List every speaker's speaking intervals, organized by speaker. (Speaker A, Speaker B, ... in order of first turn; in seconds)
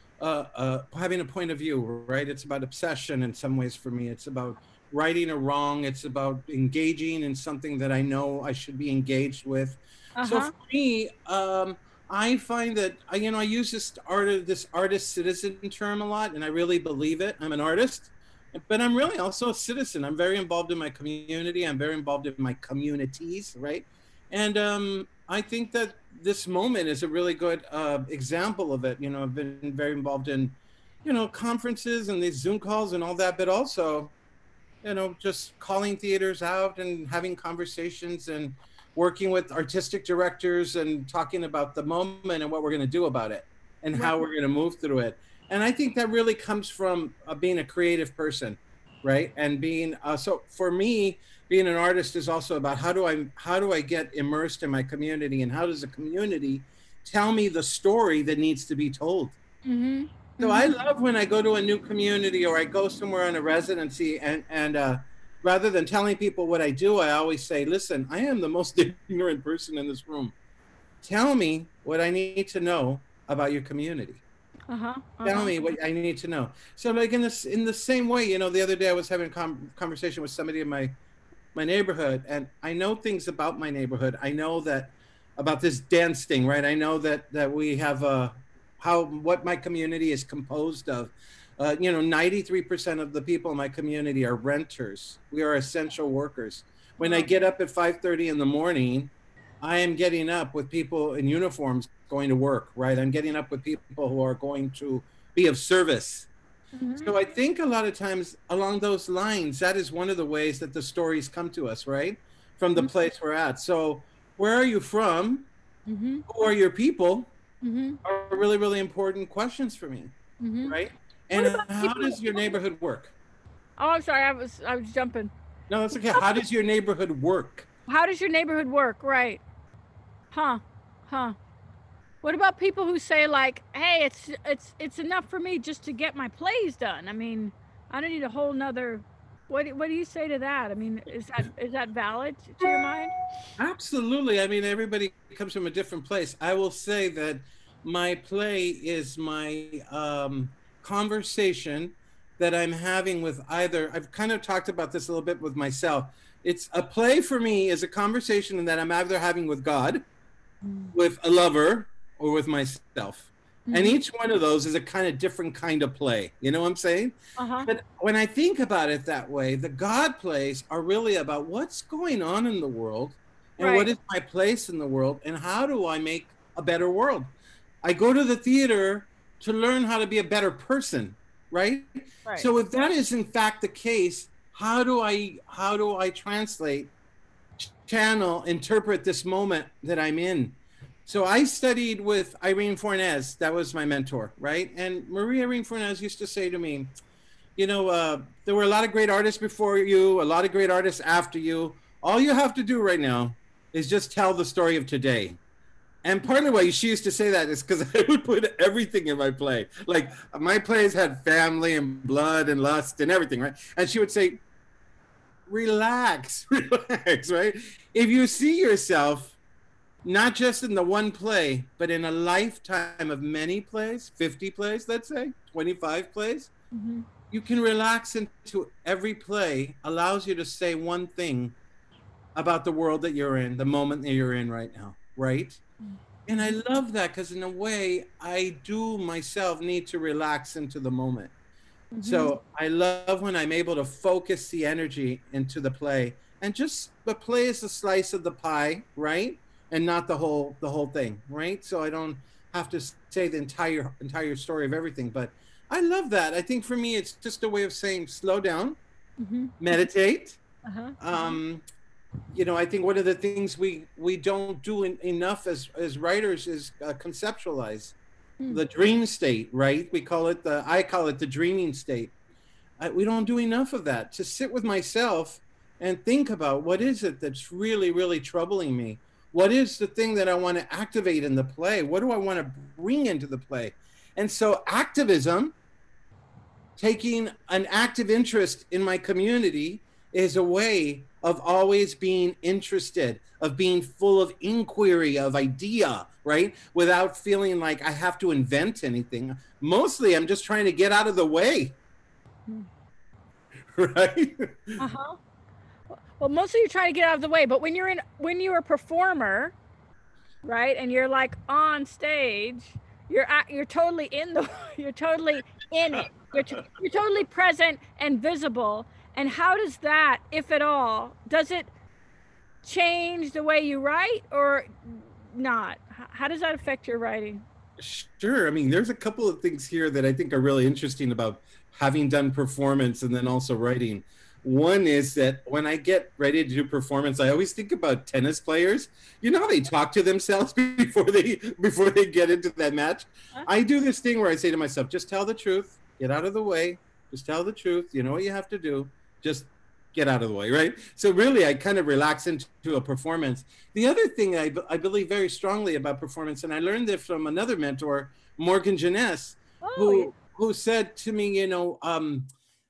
Speaker A: 0.2-34.1, 34.8-59.4, 60.4-70.3, 71.0-74.2, 75.2-80.9, 81.5-106.3, 107.0-115.5, 116.3-117.3, 118.0-120.1, 120.7-123.2, 125.7-127.7, 143.6-160.0, 160.9-186.9, 187.6-196.9, 197.6-205.4, 206.0-214.4, 215.5-219.4, 220.0-226.5, 227.3-231.6, 232.3-235.6, 236.3-241.3, 242.0-258.8, 259.6-260.4, 261.0-261.6, 262.3-268.0, 268.5-272.1, 272.8-285.5, 286.8-301.8, 303.8-304.8, 327.8-362.3
Speaker B: 10.2-10.5, 44.0-44.3, 59.6-60.7, 74.7-75.7, 97.0-97.3, 106.8-107.1, 115.9-116.2, 117.6-118.0, 120.4-120.8, 121.3-122.5, 123.8-125.3, 127.9-129.4, 130.3-131.4, 132.2-143.1, 160.6-160.9, 163.7-164.0, 167.4-167.7, 173.6-173.9, 226.7-227.1, 235.8-236.6, 241.9-242.3, 259.2-259.9, 260.7-261.4, 304.8-305.2, 306.0-309.6, 310.4-321.7, 322.6-327.4, 359.6-360.1